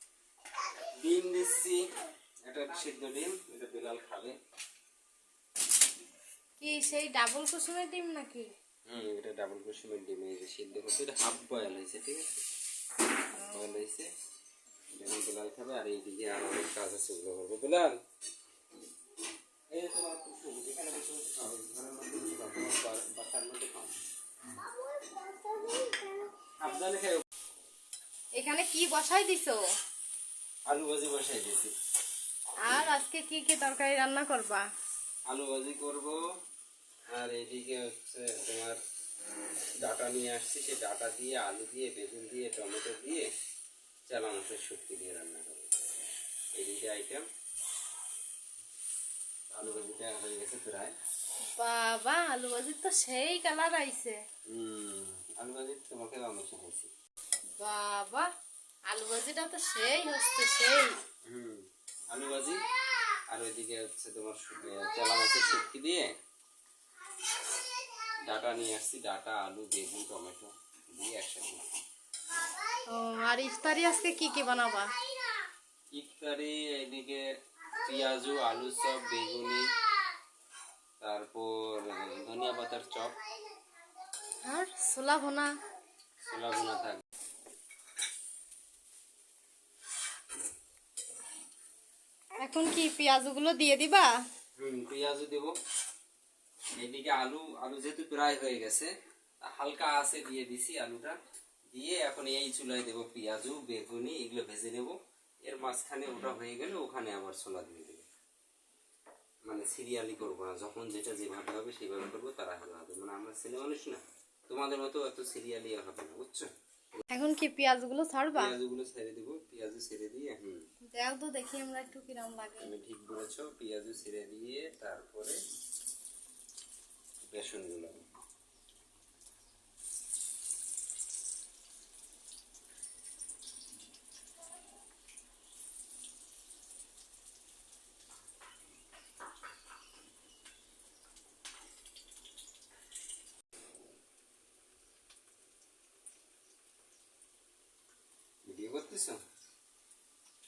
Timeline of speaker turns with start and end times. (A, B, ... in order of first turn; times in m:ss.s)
0:01.0-0:01.8 A
0:02.5-0:04.4 A
0:06.6-0:08.5 B
0:08.9-0:12.4 A
0:13.3-0:13.8 B
0:13.3-0:14.1 A
0:14.9-0:18.0 A
0:19.7-0:23.9 A
0:25.0-0:26.2 B
0:26.6-0:27.2 A
0:28.4-0:29.6 B
0:30.7-0:31.7 A
0:32.6-0:34.6 B
0:35.3-0:36.1 A
0:37.1-0:38.8 A
0:39.8-0:43.2 A
0:44.1-0:45.7 A
0:46.6-0:47.2 A
0:49.5-0:50.9 A
0:51.6-0:54.2 B
0:54.5-0:56.9 A
0:57.6-0:58.2 B
0:58.9-1:00.9 B
1:01.3-1:02.6 A
1:03.3-1:06.1 A
1:08.2-1:11.6 A
1:12.9-1:14.9 B
1:15.9-1:17.2 A
1:17.8-1:19.6 A
1:21.0-1:23.1 A
1:24.4-1:25.5 B
1:26.2-1:27.0 A
1:32.4-1:34.1 B
1:34.6-1:35.5 A
1:36.8-1:41.2 A
1:41.7-1:48.0 A
1:49.5-1:57.0 A
1:57.1-1:58.5 B
1:58.4-2:00.6 A
2:01.0-2:02.7 B
2:02.6-2:05.3 A
2:07.3-2:08.0 A
2:28.4-2:29.2 A